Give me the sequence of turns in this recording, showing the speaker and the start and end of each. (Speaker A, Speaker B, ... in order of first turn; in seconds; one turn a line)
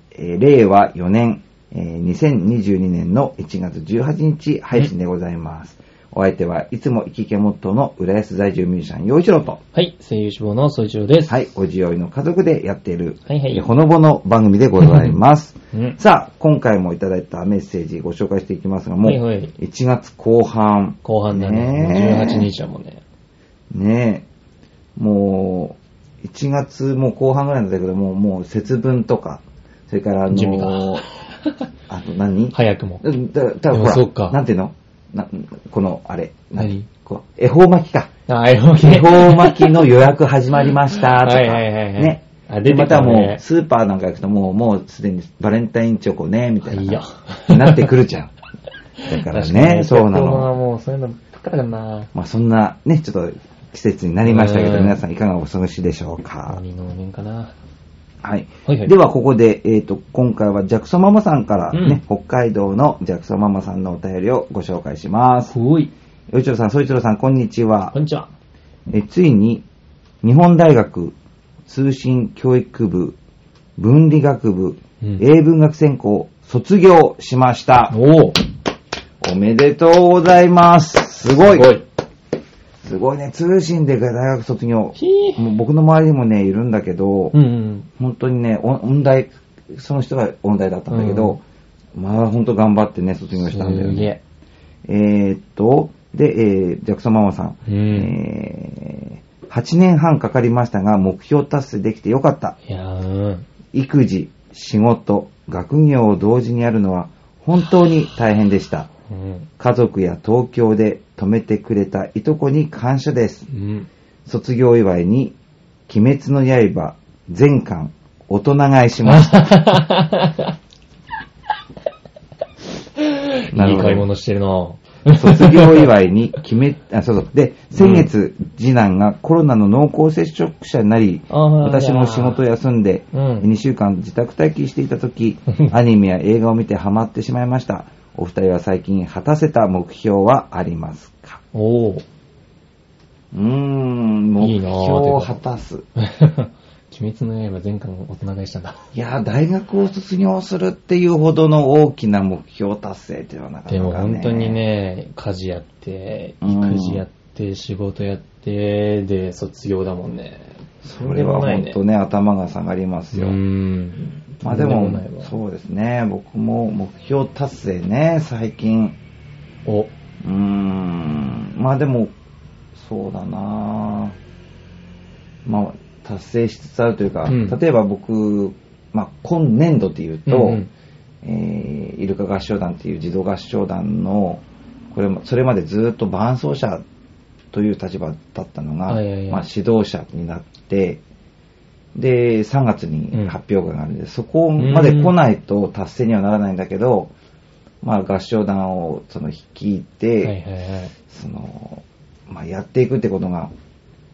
Speaker A: 0.1-9.6
Speaker B: 9.7-11.4
Speaker A: 11.3-22.5
Speaker B: 13.2-13.7
Speaker B: 14.8-15.1
Speaker B: 19.0-19.5
Speaker B: 21.0-23.0
Speaker A: 23.7-24.2
Speaker A: 24.9-31.0
Speaker B: 30.3-31.6
Speaker A: 31.9-38.1
Speaker B: 32.5-33.0
Speaker B: 33.7-34.4
Speaker B: 36.5-36.9
Speaker B: 38.3-39.9
Speaker A: 38.8-48.3
Speaker B: 40.6-43.4
Speaker B: 46.6-48.0
Speaker B: 49.0-52.1
Speaker A: 49.1-50.5
Speaker A: 52.1-56.6
Speaker B: 54.2-55.0
Speaker B: 56.5-57.5
Speaker A: 58.2-65.5
Speaker B: 58.6-58.9
Speaker B: 61.7-62.0
Speaker B: 65.5-65.9
Speaker A: 66.3-67.9
Speaker B: 67.9-68.3
Speaker A: 68.9-69.6
Speaker A: 70.2-71.2
Speaker A: 71.7-73.2
Speaker A: 73.8-78.0
Speaker B: 77.9-78.4
Speaker A: 79.2-81.7
Speaker B: 81.3-81.8
Speaker A: 82.8-87.3
Speaker B: 85.0-85.5
Speaker B: 87.3-87.9
Speaker A: 88.0-91.4
Speaker B: 90.9-91.4
Speaker A: 91.9-94.1
Speaker B: 93.3-94.2
Speaker A: 94.9-102.5
Speaker B: 97.7-98.1
Speaker B: 102.7-103.5
Speaker A: 103.7-108.9
Speaker B: 109.1-109.5
Speaker A: 109.6-113.5
Speaker B: 113.5-113.9
Speaker A: 114.2-115.3
Speaker A: 115.9-119.6
Speaker B: 119.1-120.5
Speaker B: 123.0-125.9
Speaker A: 123.5-124.1
Speaker A: 125.1-141.4
Speaker B: 127.7-128.1
Speaker B: 131.3-132.4
Speaker B: 133.1-133.5
Speaker B: 141.5-142.0
Speaker A: 143.3-145.8
Speaker B: 144.4-145.4
Speaker B: 146.0-148.8
Speaker A: 148.9-154.6
Speaker B: 153.7-161.8
Speaker A: 156.4-157.0
Speaker A: 160.8-163.4
Speaker B: 163.1-165.4
Speaker A: 164.4-168.9
Speaker A: 170.2-172.1
Speaker A: 172.7-174.1
Speaker A: 175.4-180.6
Speaker B: 177.3-177.6
Speaker B: 180.2-180.7
Speaker A: 181.2-186.8
Speaker A: 187.5-191.0
Speaker B: 188.9-189.4
Speaker A: 191.9-197.1
Speaker B: 194.6-195.2
Speaker A: 197.8-200.3
Speaker B: 200.2-200.9
Speaker A: 201.1-203.5